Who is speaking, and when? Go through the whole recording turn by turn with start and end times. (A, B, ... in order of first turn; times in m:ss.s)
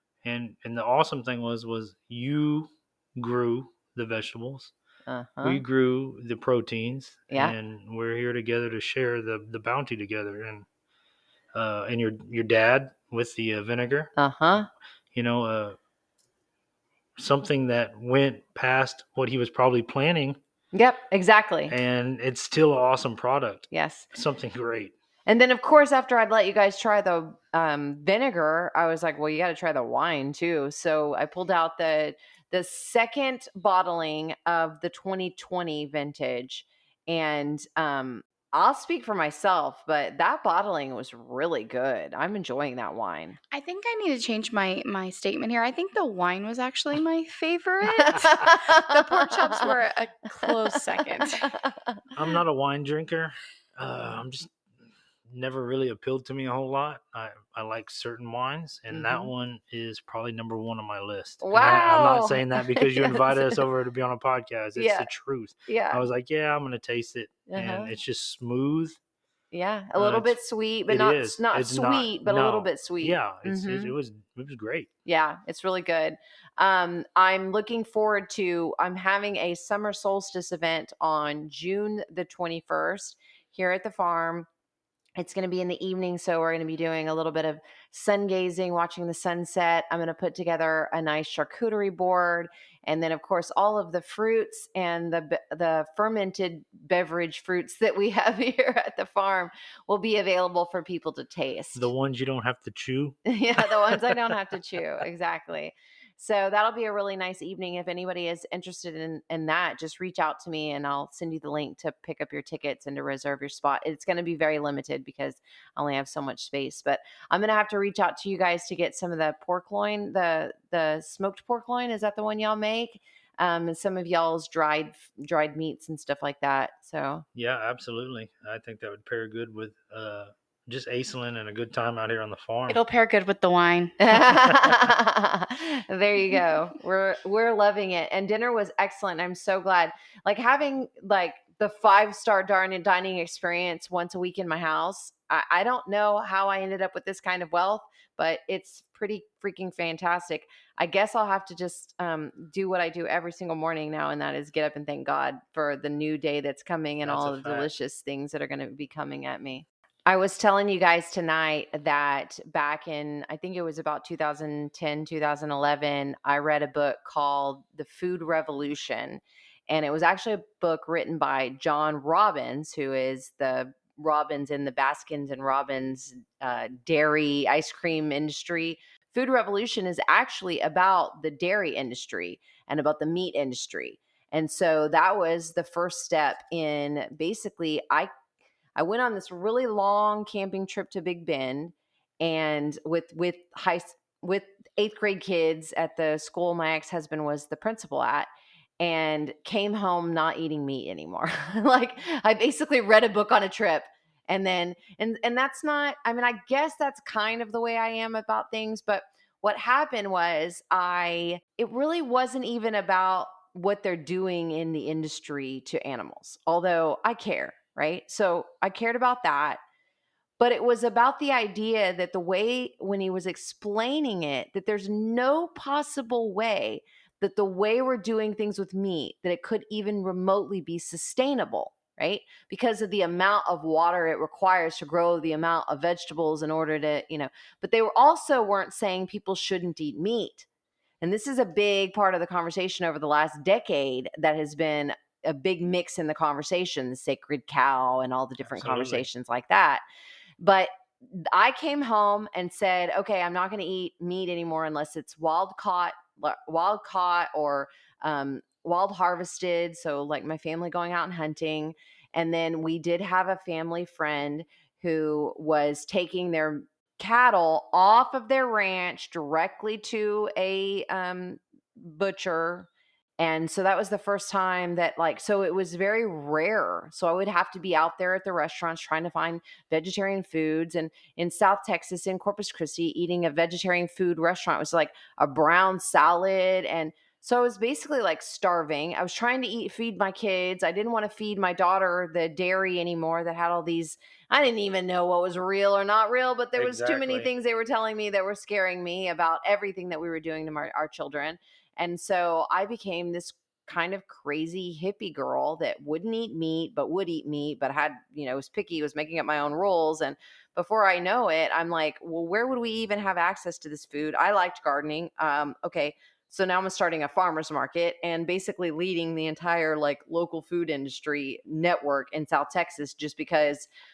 0:00.2-0:04.7 A
0:05.1-0:05.6 B
0:05.4-0:10.6 A
0:11.5-0:14.1 A
0:14.2-0:14.7 B
0:15.1-0:15.8 A
0:17.2-0:20.4 A
0:20.7-0:21.7 B
0:21.7-0:24.9 A
0:23.7-0:24.1 B
0:25.3-0:43.4 B
0:43.5-0:51.4 C
0:47.8-0:49.7 B
0:51.4-0:52.0 B
0:52.1-0:54.5 A
0:55.3-1:09.0 A
0:58.9-0:59.3 B
1:01.4-1:03.6 B
1:04.8-1:05.1 B
1:05.7-1:06.0 B
1:07.5-1:07.9 B
1:09.5-1:13.9 B
1:10.0-1:14.9 A
1:15.0-1:24.5 B
1:25.2-1:41.9 B
1:41.8-1:44.4 A
1:43.2-2:07.2 B
2:07.3-2:12.8 A
2:12.7-2:14.4 C
2:14.0-3:08.1 B
2:37.0-2:37.7 A
3:08.8-3:18.3 B
3:18.8-3:39.6 B
3:40.4-4:00.5 B
4:01.0-4:09.8 B
4:08.4-4:09.0 A
4:10.4-4:32.7 B
4:33.2-5:23.7 B
4:56.6-4:57.3 A